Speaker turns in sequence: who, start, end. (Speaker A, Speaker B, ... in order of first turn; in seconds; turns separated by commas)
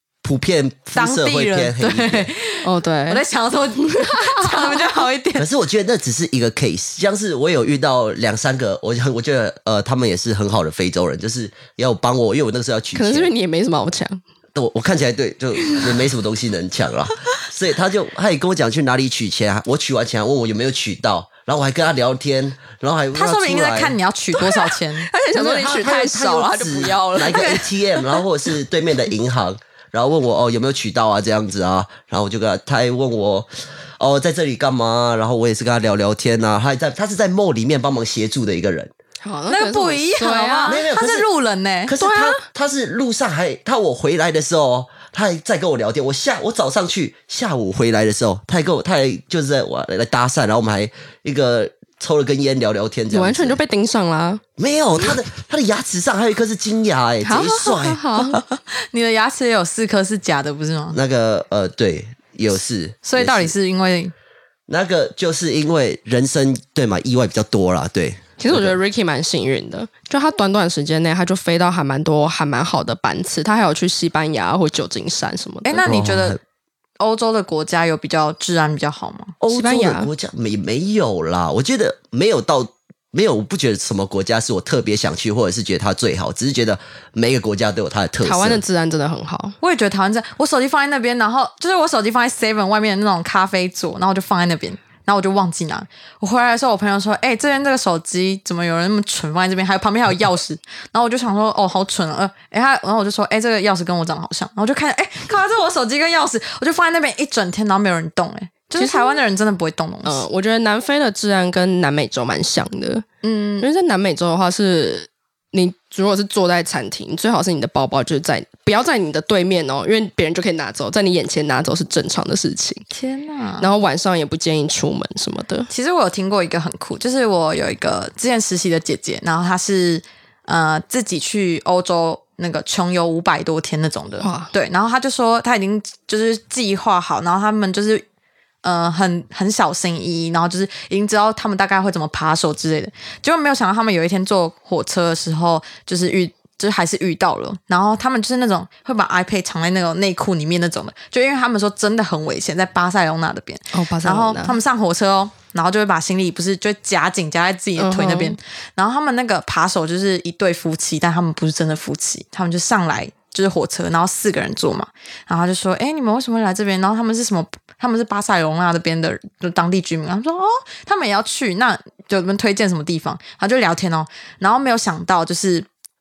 Speaker A: 0.2-2.3, Speaker B: 0.9-5.5, Speaker C: 2.6-3.2, Speaker C: 3.8-5.0, Speaker A: 5.4-13.3, Speaker C: 12.9-14.2, Speaker A: 14.6-24.0, Speaker B: 23.1-25.1, Speaker C: 24.4-27.7, Speaker A: 25.3-38.9, Speaker B: 27.3-27.6, Speaker C: 39.2-40.9, Speaker B: 39.5-41.9, Speaker A: 40.7-41.3, Speaker A: 41.9-53.6, Speaker C: 42.0-42.4, Speaker C: 53.1-54.4, Speaker A: 54.6-58.0, Speaker C: 57.2-58.4, Speaker B: 58.2-61.0, Speaker A: 60.9-63.5, Speaker B: 63.0-64.1, Speaker A: 64.7-68.8, Speaker C: 68.4-75.9, Speaker B: 75.6-76.4, Speaker A: 75.8-76.4, Speaker B: 77.0-79.4, Speaker A: 79.4-88.6, Speaker C: 79.5-80.1, Speaker C: 88.2-89.6, Speaker B: 89.6-110.2, Speaker C: 108.8-109.2, Speaker C: 110.0-113.0, Speaker B: 113.2-113.7, Speaker C: 113.6-122.8, Speaker B: 122.9-123.7, Speaker C: 123.6-125.7, Speaker B: 125.7-138.1, Speaker C: 134.2-134.5, Speaker B: 138.6-175.7, Speaker C: 153.7-154.6, Speaker C: 157.8-158.4